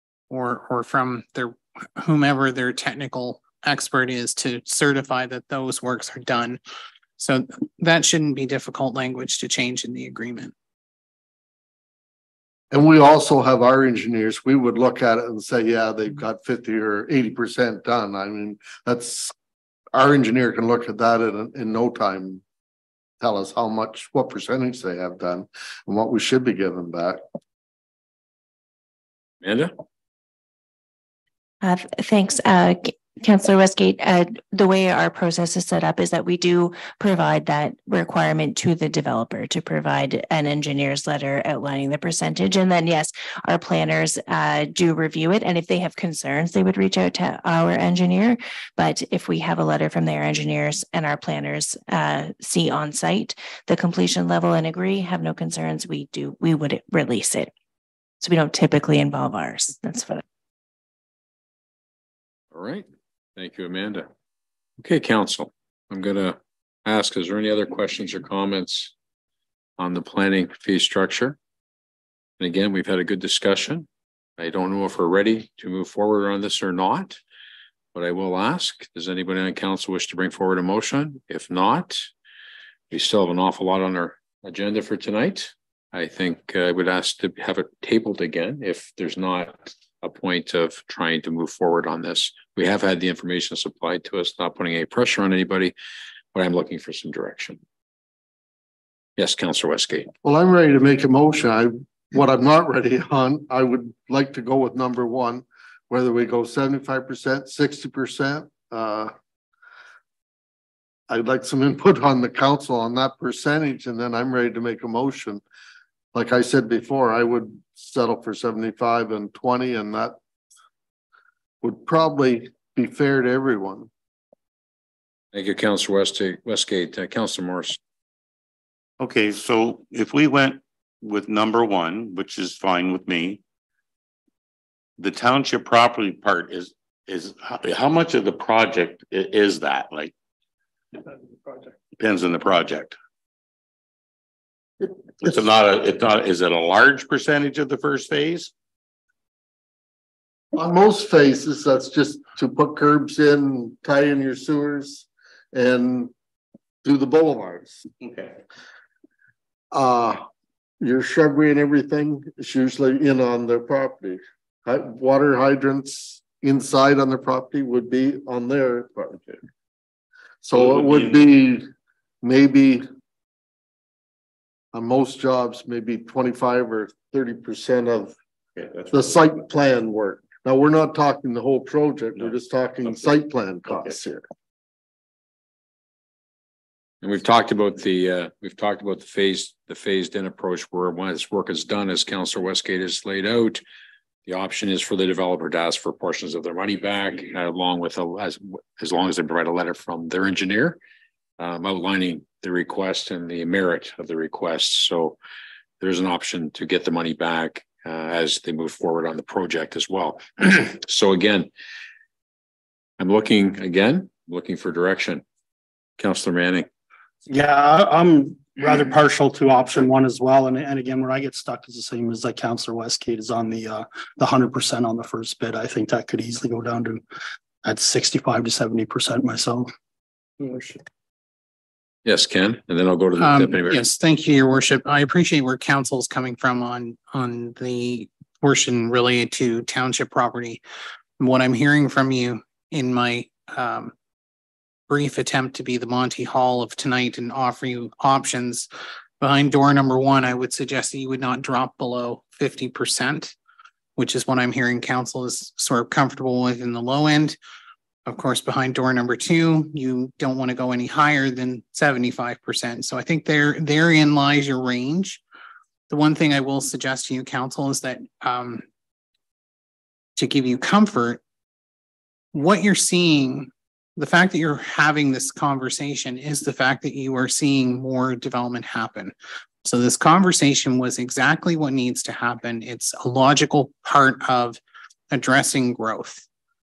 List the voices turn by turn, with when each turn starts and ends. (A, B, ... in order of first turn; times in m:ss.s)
0:00.3-0:06.6 A
0:07.2-0:10.5 A
0:12.7-0:19.3 B
0:19.9-0:22.4 B
0:23.2-0:27.2 B
0:29.4-0:29.7 C
0:31.6-0:57.5 D
0:58.2-1:00.2 D
1:02.5-1:04.1 C
1:04.8-1:08.9 C
1:09.8-1:11.4 C
1:12.4-1:17.2 C
1:17.9-1:22.1 C
1:22.9-1:35.7 C
1:36.3-1:37.6 C
1:39.2-1:40.1 C
1:40.2-1:49.1 B
1:51.1-1:55.4 B
1:56.1-2:00.2 B
2:01.6-2:03.9 B
2:05.3-2:07.8 C
2:09.0-2:13.4 E
2:15.0-2:20.1 E
2:22.0-2:23.0 E
2:25.2-2:28.5 E
2:30.6-2:36.1 B
2:36.8-2:37.8 B
2:38.0-2:38.3 E
2:39.7-2:40.2 B
2:40.8-2:49.3 B
2:50.4-2:51.6 B
2:52.2-2:52.8 B
2:54.7-2:58.1 B
2:58.9-3:04.2 B
3:07.0-3:13.6 C
3:14.3-3:20.8 C
3:21.4-3:25.2 C
3:25.8-3:31.5 C
3:33.0-3:35.2 C
3:36.0-3:36.7 C
3:37.3-3:47.0 F
3:47.6-3:49.7 F
3:52.0-3:53.9 C
3:53.2-4:00.6 A
4:01.2-4:03.9 A
4:04.9-4:08.7 A
4:09.2-4:13.4 A
4:14.0-4:17.4 A
4:18.1-4:25.2 A
4:25.9-4:28.6 A
4:30.2-4:31.2 A
4:32.3-4:44.6 A
4:45.1-4:46.2 A